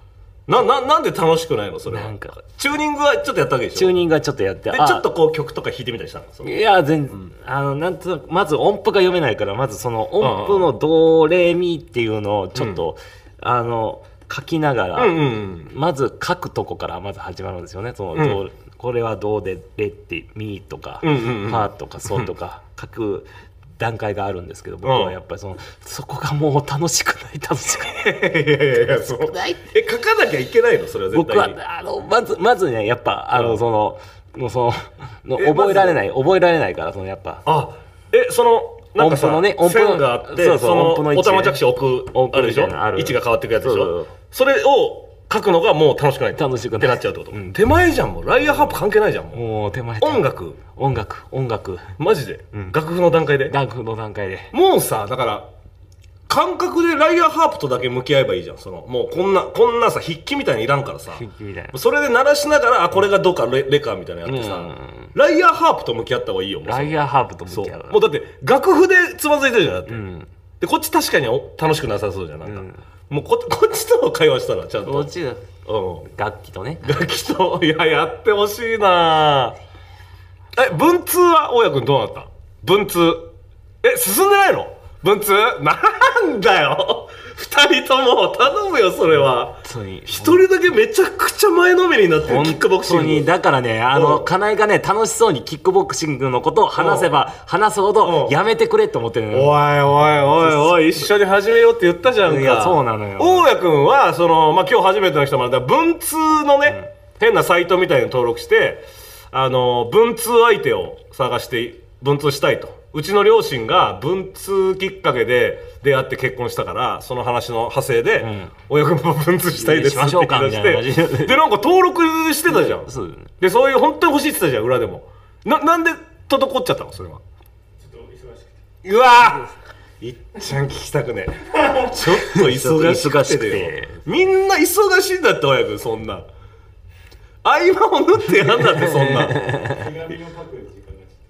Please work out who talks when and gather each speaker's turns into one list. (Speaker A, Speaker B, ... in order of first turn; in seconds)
Speaker A: 0.5-4.0, 4.7-6.6, 10.2-10.7, 12.5-12.8, 14.9-15.7, 18.1-18.4, 21.0-22.3, 24.8-25.1, 27.8-31.6, 33.3-33.6, 35.4-36.0, 37.5-49.4, 50.0-50.6, 52.0-53.5, 54.5-55.5, 56.3-70.0, 70.6-75.1, 75.7-76.1, 76.8-79.6, 80.5-93.3, 93.9-94.3, 96.8-97.1, 98.0-98.4, 99.3-127.2, 128.8-136.3, 137.4-139.6
Speaker B: 1.9-2.4, 3.7-5.0, 6.4-28.1, 28.7-29.7, 31.1-37.4, 39.0-41.6, 42.1-44.1, 46.4-47.6, 49.3-52.0, 53.5-54.5, 61.1-61.8, 64.2-65.1, 66.7-68.0, 69.9-70.3, 72.5-72.8, 74.8-75.5, 76.1-77.1, 89.6-90.4, 92.2-100.8, 102.2-103.5, 118.2-118.5, 119.5-121.4, 122.5-123.3, 132.0-134.0, 138.5-139.9
Speaker C: 127.8-128.6, 139.5-141.1